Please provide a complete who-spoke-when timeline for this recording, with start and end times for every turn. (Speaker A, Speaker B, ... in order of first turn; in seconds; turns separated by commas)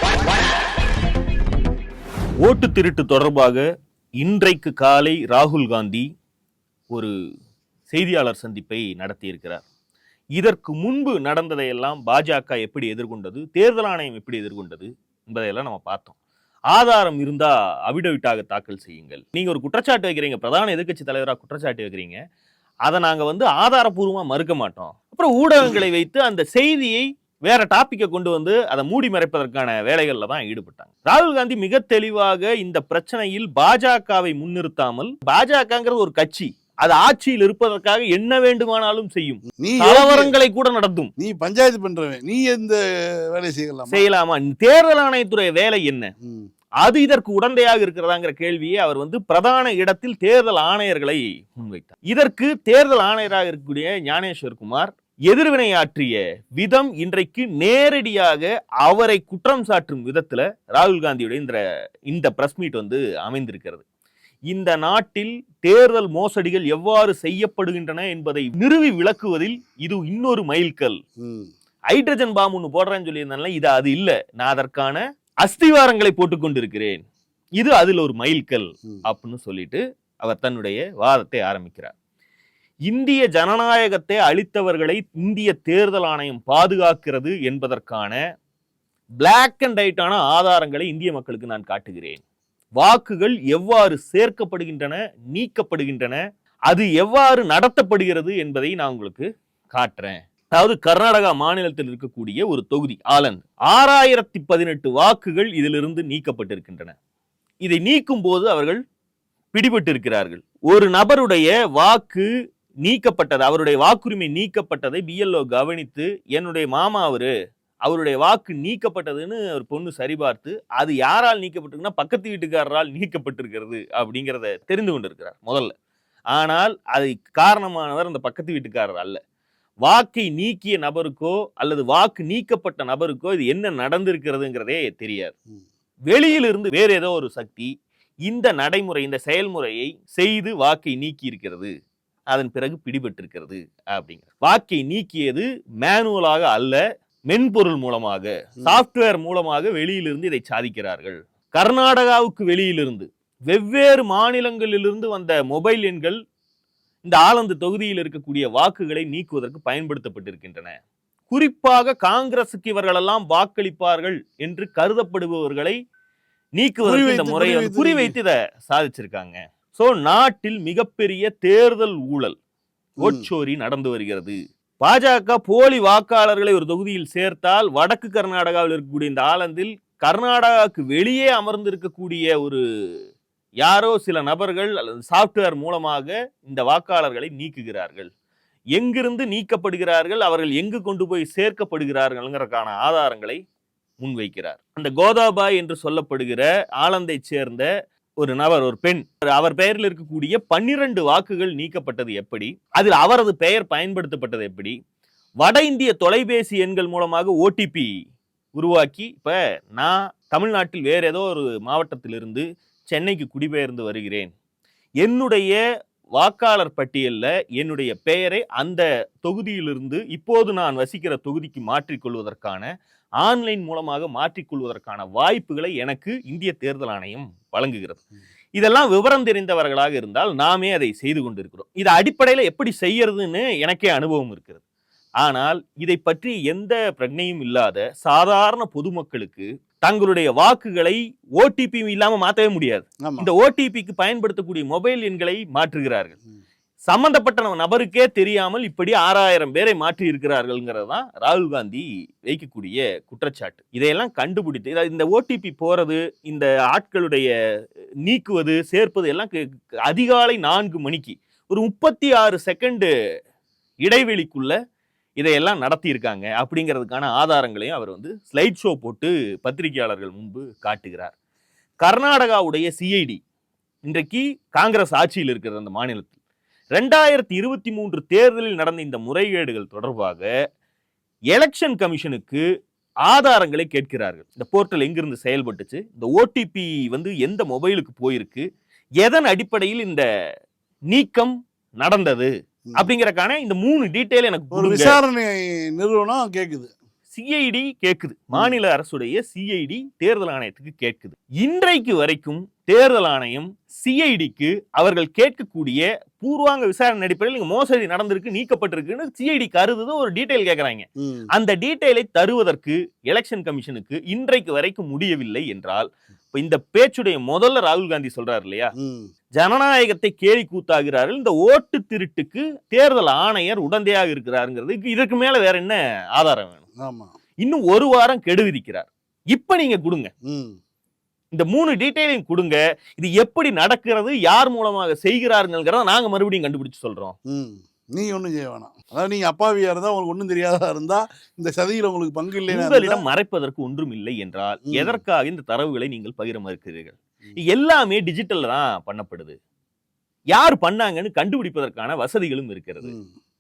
Speaker A: 2.4-3.6, Speaker A: 4.2-6.1, Speaker A: 7.9-9.7, Speaker A: 10.4-16.2, Speaker A: 16.7-22.2, Speaker A: 22.9-41.1, Speaker B: 39.6-40.3, Speaker B: 41.2-42.8, Speaker B: 43.3-44.0, Speaker A: 43.9-46.1, Speaker B: 46.2-46.5, Speaker A: 46.8-61.6, Speaker A: 62.1-63.8, Speaker A: 64.5-71.0, Speaker B: 71.2-71.5, Speaker A: 71.9-77.0, Speaker A: 77.6-81.9, Speaker A: 82.9-88.2, Speaker A: 89.2-92.2, Speaker A: 92.8-106.9, Speaker A: 107.6-108.8, Speaker A: 109.5-112.3, Speaker A: 112.8-117.3, Speaker A: 117.8-125.7, Speaker A: 126.3-129.2, Speaker A: 129.8-135.3, Speaker A: 136.1-137.7, Speaker A: 138.3-141.7, Speaker A: 142.3-156.2, Speaker A: 157.0-160.8, Speaker A: 161.3-165.8, Speaker A: 166.6-172.4, Speaker B: 166.8-168.2, Speaker A: 173.0-182.6, Speaker B: 173.0-173.3, Speaker A: 183.6-188.1, Speaker A: 188.7-193.4, Speaker A: 194.0-197.7, Speaker A: 198.2-204.8, Speaker A: 205.4-207.9, Speaker A: 208.6-214.3, Speaker A: 215.0-215.6, Speaker A: 216.2-222.7, Speaker A: 223.2-228.0, Speaker A: 228.6-234.6, Speaker A: 235.2-246.2, Speaker B: 243.0-243.3, Speaker A: 246.9-257.3, Speaker A: 258.1-262.9, Speaker A: 263.8-264.5, Speaker A: 265.2-271.1, Speaker A: 271.8-273.2, Speaker A: 273.9-276.2, Speaker A: 276.7-280.3, Speaker A: 281.3-282.4, Speaker A: 283.1-288.4, Speaker A: 289.0-290.0, Speaker A: 290.9-295.0, Speaker B: 294.5-296.7, Speaker A: 297.1-318.7, Speaker B: 318.8-319.1, Speaker A: 319.4-326.6, Speaker B: 326.8-327.1, Speaker A: 327.4-330.1, Speaker B: 330.3-330.6, Speaker A: 331.3-337.1, Speaker B: 337.3-343.0, Speaker A: 342.5-349.4, Speaker B: 344.7-345.0, Speaker A: 350.3-353.0, Speaker B: 352.8-353.1